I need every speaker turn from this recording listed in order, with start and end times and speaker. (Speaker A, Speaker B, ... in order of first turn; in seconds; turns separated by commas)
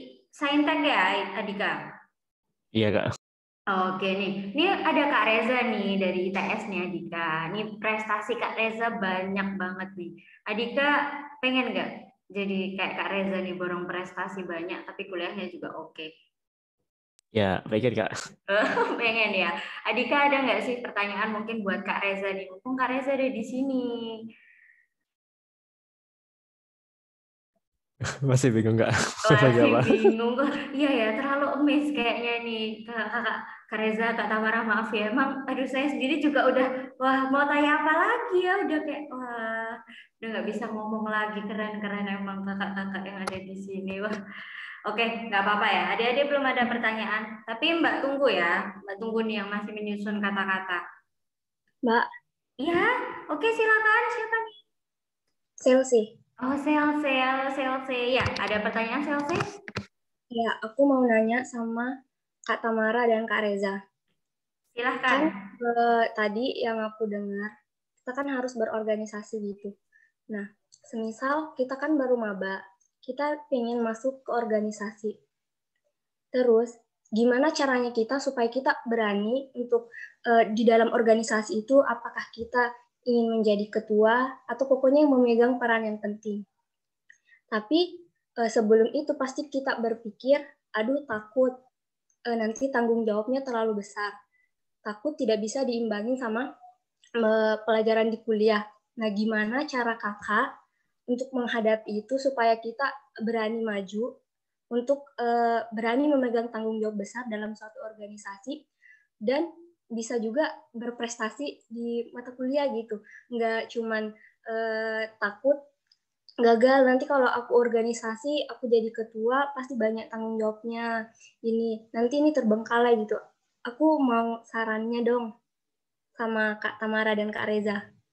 Speaker A: 0.3-1.8, Speaker B: 2.8-3.1, Speaker A: 3.7-16.1, Speaker B: 17.4-18.1, Speaker A: 18.5-23.9, Speaker B: 28.2-30.1, Speaker A: 29.3-44.1, Speaker A: 44.9-50.8, Speaker A: 52.6-54.5, Speaker C: 55.6-56.1, Speaker A: 56.5-59.5, Speaker C: 60.3-61.9, Speaker C: 62.5-63.8, Speaker A: 64.8-65.3, Speaker C: 65.1-67.5, Speaker C: 68.1-69.7, Speaker C: 70.3-75.2, Speaker C: 76.3-86.4, Speaker C: 87.5-91.5, Speaker C: 92.3-94.1, Speaker C: 94.9-96.5, Speaker C: 97.2-100.5, Speaker C: 101.1-104.1, Speaker C: 104.7-108.6, Speaker C: 109.3-115.6, Speaker C: 116.4-120.9, Speaker C: 121.5-125.3, Speaker C: 126.2-127.8